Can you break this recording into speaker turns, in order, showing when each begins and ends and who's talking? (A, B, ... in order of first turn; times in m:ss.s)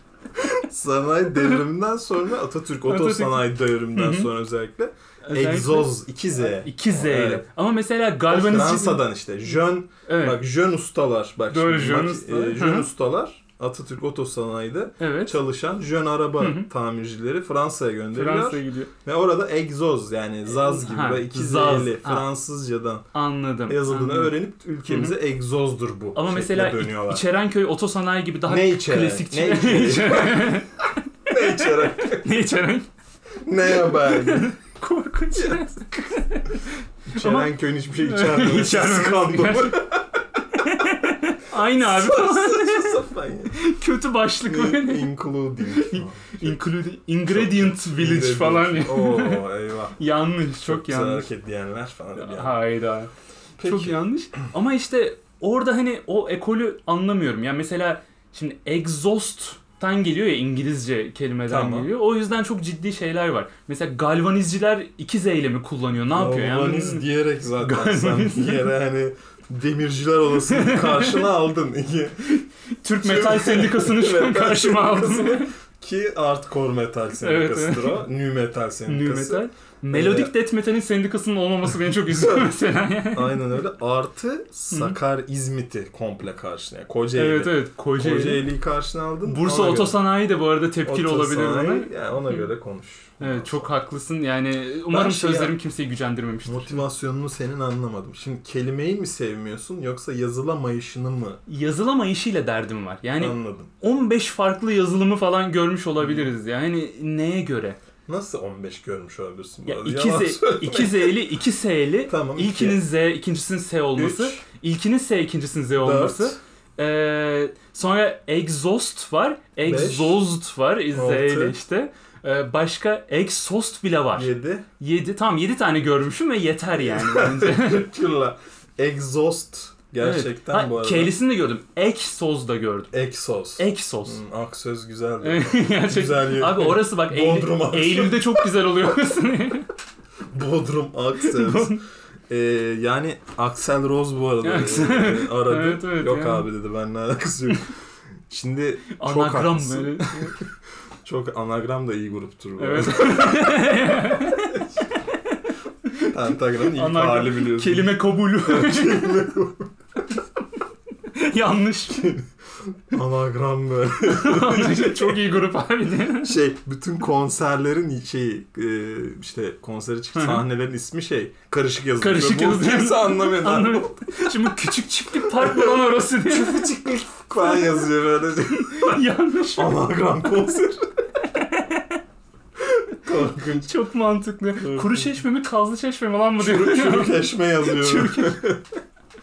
0:00.4-0:07.4 A
0:01.3-0:01.6 B
0:02.8-0:04.3 B
0:05.3-0:09.0 B
0:08.3-0:23.0 A
0:10.1-0:10.4 B
0:11.5-0:12.9 B
0:15.0-0:15.4 B
0:16.4-0:16.7 B
0:18.1-0:18.9 B
0:20.5-0:22.3 B
0:23.1-0:24.3 B
0:23.7-0:27.2 A
0:24.9-0:25.2 B
0:26.1-0:32.9 B
0:28.5-0:30.6 A
0:31.3-0:32.3 A
0:33.4-0:34.6 A
0:33.7-0:39.8 B
0:35.3-0:35.7 A
0:37.1-0:40.0 A
0:40.5-0:45.1 B
0:40.6-0:40.9 A
0:41.5-0:43.6 A
0:44.4-0:46.6 A
0:45.6-0:49.4 B
0:47.2-0:50.0 A
0:50.0-0:51.3 B
0:50.6-0:52.6 A
0:52.2-0:53.1 B
0:53.6-0:54.0 A
0:53.6-1:07.1 B
1:01.5-1:01.9 A
1:06.1-1:12.4 A
1:07.6-1:08.7 B
1:10.4-1:11.3 B
1:12.8-1:15.5 B
1:13.0-1:20.3 A
1:17.2-1:18.0 B
1:18.9-1:23.4 B
1:22.1-1:22.5 A
1:23.1-1:30.0 A
1:24.7-1:25.0 B
1:27.1-1:28.4 B
1:29.2-1:32.4 B
1:30.8-1:33.7 A
1:33.2-1:36.8 B
1:34.9-1:35.5 A
1:36.4-1:41.4 A
1:41.5-1:47.8 B
1:43.2-1:43.7 A
1:46.0-1:46.3 A
1:48.0-1:51.3 A
1:49.7-2:07.9 B
1:52.1-1:52.8 A
1:54.0-1:54.4 A
1:55.8-1:56.4 A
1:59.6-2:00.2 A
2:00.9-2:01.5 A
2:04.1-2:04.6 A
2:06.7-2:11.1 A
2:10.0-2:12.9 B
2:12.9-2:18.5 A
2:13.6-2:14.2 B
2:15.2-2:19.7 B
2:20.3-2:27.7 A
2:21.2-2:21.8 B
2:24.4-2:26.5 B
2:28.3-2:30.4 A
2:29.0-2:30.3 B
2:31.0-2:34.6 A
2:32.6-2:39.2 B
2:36.0-2:39.7 A
2:41.1-2:42.0 B
2:41.9-2:45.2 A
2:44.0-2:46.4 B
2:46.2-2:59.0 A
2:50.1-2:50.4 B
2:52.0-2:56.7 B
2:57.4-2:57.9 B
2:58.5-2:59.8 B
2:59.5-3:00.8 A
3:01.3-3:02.0 B
3:02.6-3:03.7 A
3:03.6-3:08.4 B
3:04.6-3:05.1 A
3:06.4-3:08.8 A